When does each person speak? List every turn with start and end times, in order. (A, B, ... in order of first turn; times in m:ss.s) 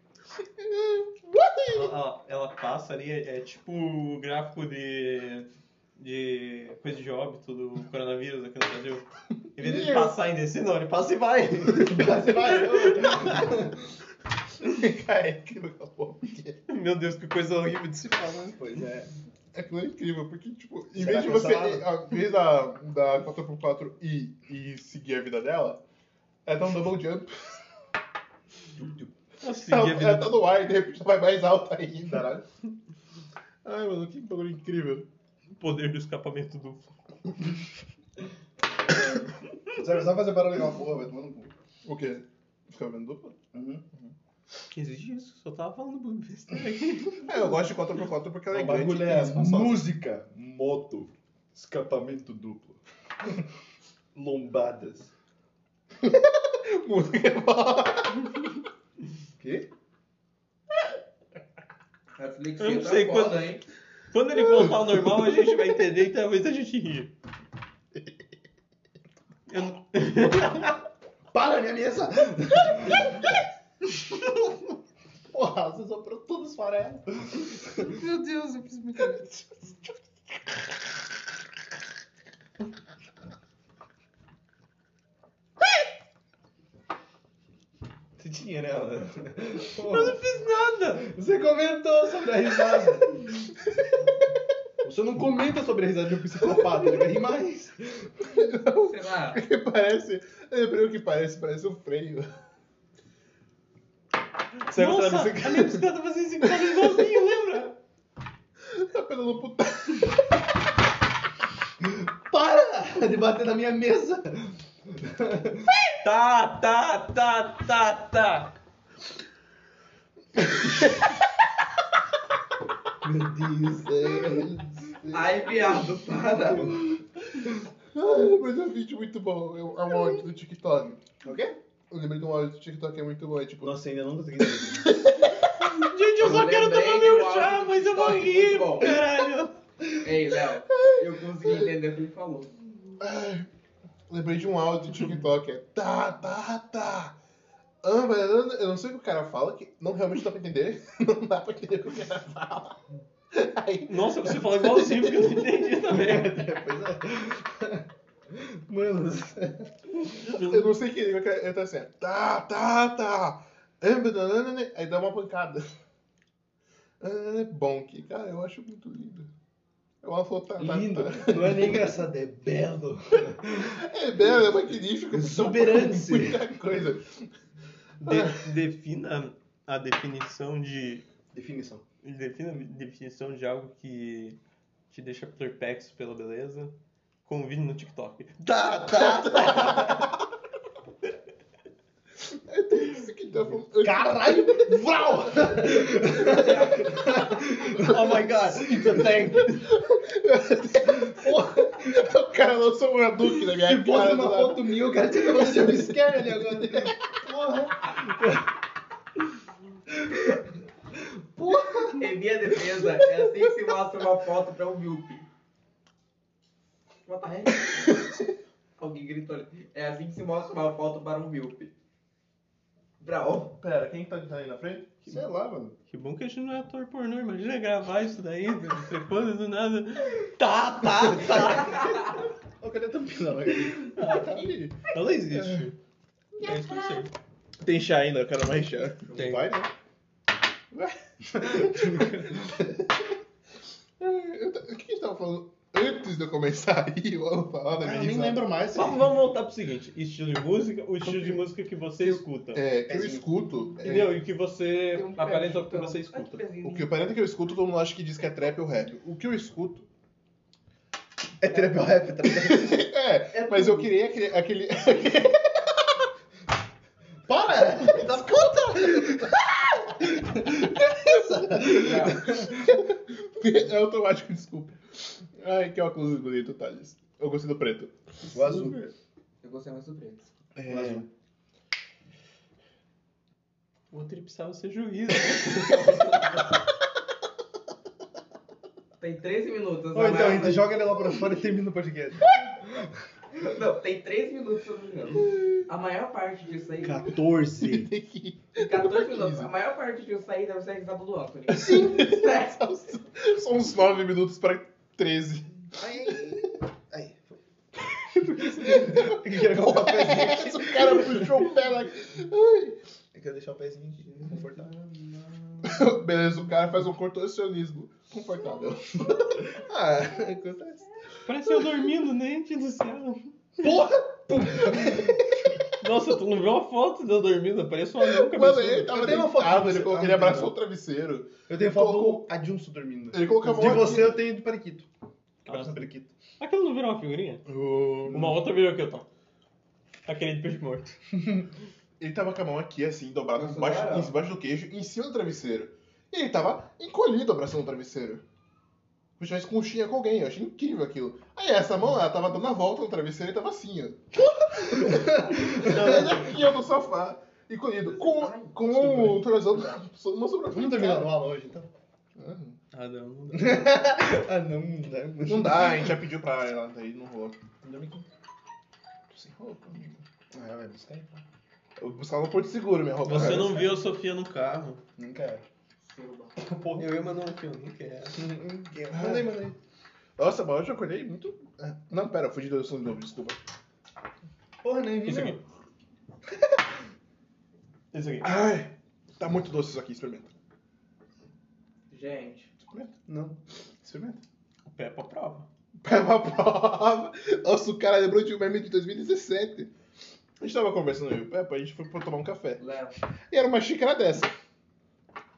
0:00.4-0:02.0 A
0:01.7-0:13.5 B
0:09.6-0:10.1 A
0:11.7-0:13.9 C
0:14.6-0:16.6 A
0:16.7-0:18.6 B
0:18.5-0:19.1 C
0:19.5-0:25.8 A
0:20.9-0:21.9 C
0:26.5-0:27.6 A
0:28.8-0:29.1 C
0:29.4-0:30.4 B
0:29.6-0:32.4 A
0:32.1-0:32.4 C
0:33.6-0:35.1 A
0:35.6-0:36.9 B
0:39.7-0:41.5 C
0:41.8-0:43.4 A
0:43.5-0:43.8 C
0:44.7-0:47.3 B
0:47.2-0:49.9 A
0:48.5-0:53.4 C
0:54.2-0:55.1 C
0:56.0-0:58.4 A
0:59.4-0:59.7 C
1:02.2-1:03.6 D
1:02.6-1:03.6 B
1:04.1-1:07.1 B
1:09.5-1:10.8 B
1:11.3-1:13.3 C
1:15.3-1:18.0 C
1:17.9-1:19.2 B
1:28.2-1:30.2 C
1:29.8-1:31.1 B
1:31.0-1:33.3 C
1:34.8-1:38.5 C
1:38.3-1:42.3 A
1:38.8-1:39.4 D
1:44.7-1:47.8 B
1:44.7-1:45.8 A
1:46.6-1:47.0 A
1:48.6-1:50.2 A
1:51.8-1:55.7 C
1:55.9-1:58.5 B
2:03.0-2:05.4 C
2:05.1-2:06.8 D
2:06.5-2:06.9 C
2:07.9-2:11.0 A
2:11.2-2:11.6 C
2:11.9-2:13.8 A
2:13.6-2:15.0 C
2:14.6-2:15.8 A
2:15.6-2:19.6 B
2:16.2-2:19.0 D
2:20.0-2:22.5 D
2:23.0-2:23.5 A
2:24.1-2:27.2 A
2:27.8-2:32.8 A
2:33.3-2:35.4 A
2:33.9-2:36.5 B
2:35.9-2:39.9 C
2:40.0-2:40.7 B
2:40.2-2:45.7 A
2:47.0-2:49.3 A
2:50.0-2:51.9 A
2:50.6-2:54.4 C
2:53.6-2:57.3 A
2:55.1-2:56.4 C
2:58.0-3:01.1 B
2:58.0-2:58.5 A
3:01.3-3:01.8 C
3:02.0-3:04.4 B
3:04.9-3:06.8 B
3:07.3-3:10.1 B
3:12.3-3:14.8 A
3:13.8-3:19.1 C
3:17.6-3:19.7 B
3:19.6-3:24.8 A
3:20.8-3:22.1 C
3:23.4-3:28.4 C
3:25.5-3:26.9 A
3:30.0-3:30.4 C
3:31.0-3:32.1 C
3:32.0-3:35.2 D
3:37.1-3:38.0 D
3:38.8-3:41.7 D
3:43.0-3:43.6 D
3:43.6-3:45.2 A
3:45.1-3:45.8 C
3:45.9-3:52.2 B
3:51.2-3:51.9 C
3:52.6-3:54.0 C
3:53.9-3:55.8 B
3:54.0-3:55.6 A
3:54.0-3:54.3 D
3:56.4-3:57.1 B
3:57.6-3:59.6 A
3:59.2-3:59.6 B
3:59.2-3:59.5 C
4:00.7-4:02.8 A
4:01.2-4:02.7 C
4:04.0-4:08.4 A
4:07.7-4:09.1 C
4:08.7-4:12.6 B
4:11.0-4:11.5 A
4:12.0-4:14.2 A
4:12.8-4:13.3 C
4:13.8-4:16.4 B
4:14.9-4:16.9 D
4:16.6-4:19.9 A
4:21.4-4:23.9 C
4:22.3-4:26.0 A
4:27.3-4:32.8 C
4:31.7-4:32.3 D
4:32.4-4:38.0 A
4:38.3-4:38.9 C
4:39.4-4:40.3 D
4:40.6-4:41.1 A
4:40.7-4:41.1 C
4:43.9-4:46.6 B
4:49.0-4:50.8 D
4:49.9-4:53.0 C
4:53.3-4:57.1 D
4:56.8-4:57.9 C
4:57.6-4:59.5 A
4:58.6-5:03.0 D
5:01.5-5:06.2 A
5:05.8-5:07.2 C
5:07.8-5:11.5 C
5:08.5-5:12.8 A
5:13.1-5:14.9 C
5:14.1-5:15.3 D
5:15.6-5:20.4 A
5:19.5-5:20.8 C
5:21.2-5:23.7 B
5:23.6-5:25.6 C
5:24.7-5:25.1 A
5:25.8-5:28.9 B
5:28.0-5:32.3 A
5:28.9-5:30.6 C
5:31.5-5:34.9 C
5:33.1-5:34.2 A
5:35.4-5:36.2 C
5:35.5-5:35.8 B
5:36.4-5:37.5 B
5:37.5-5:38.4 A
5:38.1-5:39.1 B
5:40.1-5:41.0 B
5:42.0-5:48.2 A
5:43.3-5:44.2 D
5:49.2-5:54.1 A
5:54.5-5:56.3 C
5:54.6-6:01.2 A
5:57.9-5:58.6 D
5:58.7-5:59.2 C
6:00.5-6:01.7 C
6:02.2-6:02.6 A
6:02.7-6:03.7 B
6:03.3-6:06.0 C
6:05.3-6:08.0 A
6:09.1-6:10.0 A
6:10.3-6:11.2 C
6:11.8-6:13.8 A
6:13.0-6:14.8 B
6:15.0-6:15.4 C
6:15.9-6:16.3 D
6:16.5-6:18.2 B
6:16.5-6:16.8 C
6:18.2-6:19.5 C
6:18.9-6:19.6 A
6:20.2-6:23.4 A
6:24.6-6:25.4 C
6:25.0-6:25.4 B
6:27.9-6:28.3 B
6:28.2-6:30.3 A
6:31.9-6:32.5 D
6:32.6-6:33.0 A
6:33.1-6:34.2 C
6:34.7-6:35.5 B
6:35.8-6:39.7 A
6:40.4-6:42.6 A
6:42.6-6:43.0 D
6:43.3-6:44.3 A